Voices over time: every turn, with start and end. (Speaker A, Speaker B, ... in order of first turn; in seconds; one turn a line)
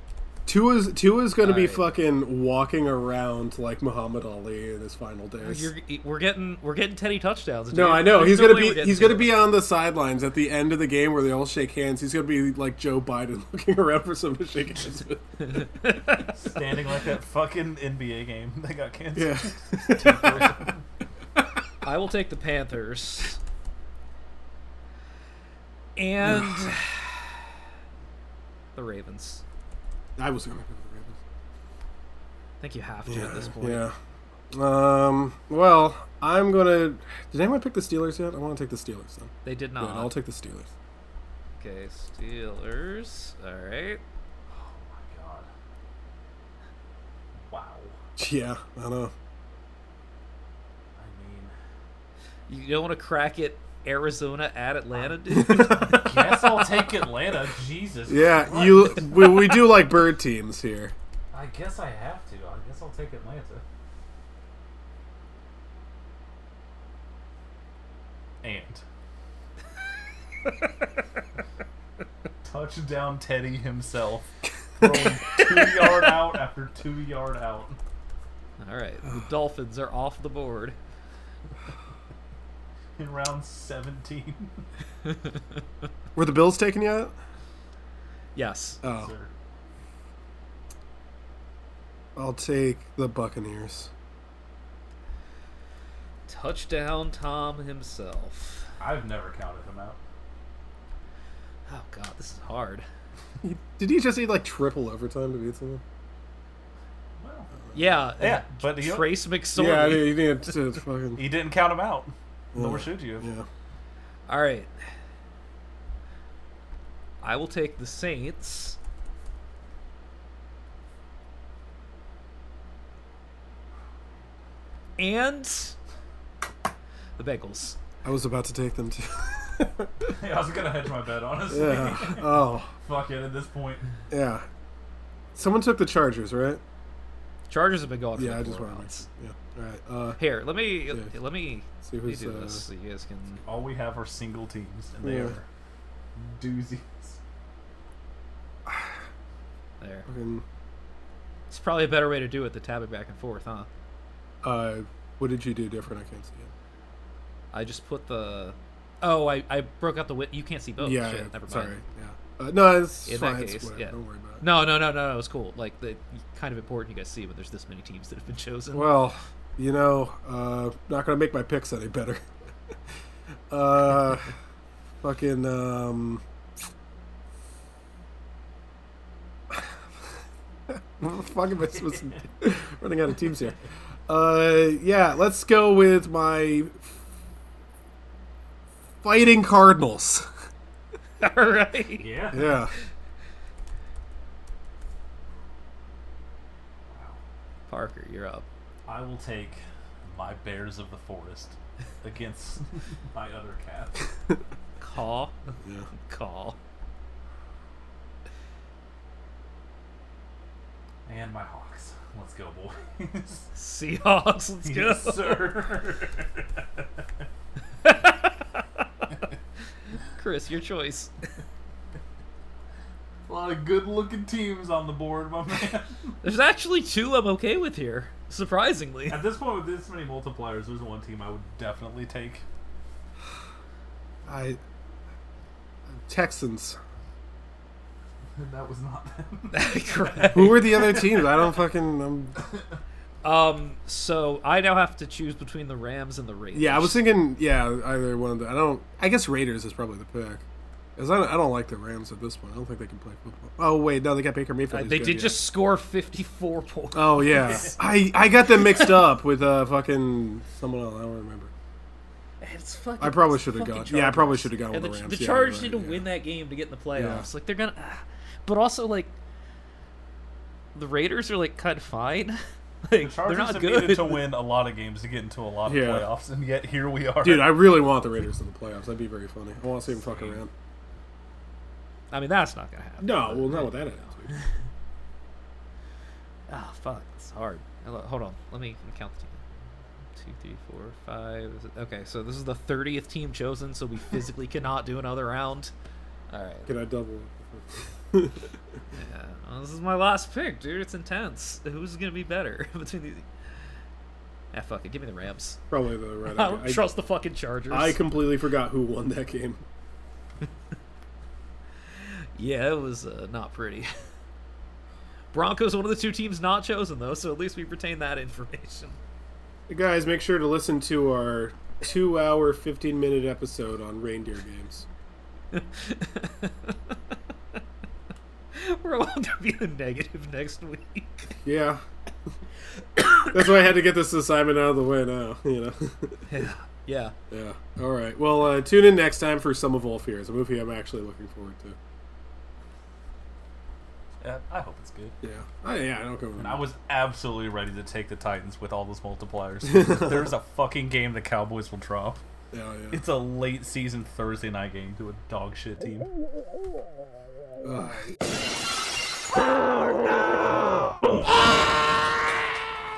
Speaker A: 0.5-5.7
Speaker B: 1.4-1.9
Speaker B: 5.4-9.4
Speaker A: 7.7-15.3
Speaker B: 15.4-16.3
Speaker C: 16.2-20.8
Speaker A: 19.1-20.7
Speaker B: 21.8-23.4
Speaker B: 25.9-27.3
Speaker B: 28.7-29.4
Speaker A: 30.2-31.2
Speaker B: 32.6-33.8
Speaker A: 33.0-33.9
Speaker A: 34.5-40.7
Speaker B: 39.4-40.1
Speaker B: 41.6-44.0
Speaker C: 44.5-45.5
Speaker C: 47.4-48.0
Speaker A: 48.2-49.1
Speaker C: 51.0-51.5
Speaker B: 52.5-56.3
Speaker A: 55.3-56.1
Speaker C: 55.5-59.3
Speaker A: 58.1-60.9
Speaker C: 61.3-63.6
Speaker C: 68.4-68.8
Speaker C: 72.4-77.8
Speaker B: 78.6-80.8
Speaker C: 83.0-84.6
Speaker B: 85.0-85.4
Speaker A: 86.1-87.1
Speaker B: 88.3-88.8
Speaker A: 88.8-89.1
Speaker C: 88.9-89.3
Speaker A: 92.2-93.9
Speaker B: 96.3-98.7
Speaker C: 98.8-100.0
Speaker B: 101.7-102.8
Speaker A: 103.4-105.8
Speaker C: 107.2-107.5
Speaker B: 107.7-110.2
Speaker C: 108.2-109.2
Speaker A: 109.5-111.2
Speaker C: 111.2-113.3
Speaker A: 112.5-113.5
Speaker B: 114.3-114.7
Speaker B: 117.2-118.8
Speaker B: 125.0-125.8
Speaker B: 127.2-127.8
Speaker A: 128.0-130.1
Speaker C: 130.1-133.9
Speaker A: 131.5-132.7
Speaker A: 134.1-134.5
Speaker A: 135.3-136.6
Speaker B: 137.5-139.1
Speaker A: 138.2-140.2
Speaker B: 140.2-143.4
Speaker A: 141.8-142.6
Speaker C: 143.4-145.4
Speaker A: 145.0-145.3
Speaker C: 146.2-147.2
Speaker A: 148.7-149.0
Speaker B: 149.8-150.1
Speaker A: 150.1-150.4
Speaker B: 151.5-153.7
Speaker A: 154.4-156.5
Speaker B: 157.5-161.8
Speaker A: 160.8-164.4
Speaker B: 163.1-168.9
Speaker A: 168.7-172.2
Speaker A: 173.5-174.3
Speaker A: 175.0-176.2
Speaker A: 179.5-179.8
Speaker A: 180.7-187.0
Speaker C: 181.9-182.2
Speaker A: 189.0-190.3
Speaker B: 191.2-192.1
Speaker C: 192.0-192.6
Speaker A: 192.3-192.7
Speaker C: 196.9-197.2
Speaker B: 197.7-198.4
Speaker C: 198.9-204.1
Speaker B: 204.8-205.3
Speaker B: 206.0-206.6
Speaker C: 211.1-213.5
Speaker B: 213.5-215.5
Speaker C: 214.6-216.9
Speaker B: 217.8-218.6
Speaker B: 220.2-221.1
Speaker C: 223.3-226.1
Speaker B: 226.2-229.2
Speaker C: 229.1-232.4
Speaker A: 234.2-234.6
Speaker A: 235.9-236.8
Speaker C: 238.3-241.2
Speaker B: 239.5-241.0
Speaker A: 240.3-242.3
Speaker B: 243.2-247.0
Speaker A: 246.5-250.4
Speaker A: 251.0-255.4
Speaker B: 254.7-257.7
Speaker A: 256.9-261.5
Speaker B: 258.6-258.9
Speaker B: 262.4-269.1
Speaker A: 263.0-266.0
Speaker A: 266.9-267.3
Speaker B: 270.7-274.3
Speaker C: 273.0-277.6
Speaker A: 275.6-276.1
Speaker A: 277.2-280.5
Speaker C: 280.1-280.4
Speaker B: 282.1-284.5
Speaker A: 283.0-284.3
Speaker B: 286.5-289.4
Speaker B: 290.2-295.7
Speaker B: 296.3-296.7
Speaker A: 296.7-298.5
Speaker B: 298.9-303.3
Speaker B: 304.5-305.6
Speaker A: 305.7-306.9
Speaker B: 306.2-308.0
Speaker A: 307.7-309.6
Speaker B: 312.0-314.0
Speaker B: 315.3-319.0
Speaker A: 319.7-324.9
Speaker B: 325.5-326.9
Speaker B: 328.5-331.3
Speaker A: 331.4-331.8
Speaker B: 333.0-333.2
Speaker A: 333.3-336.2
Speaker B: 336.3-337.1
Speaker A: 337.3-341.8
Speaker C: 344.2-345.1
Speaker A: 345.2-346.6
Speaker C: 346.4-352.2
Speaker A: 349.7-350.1
Speaker A: 352.5-353.0
Speaker C: 352.9-356.1
Speaker A: 357.6-358.2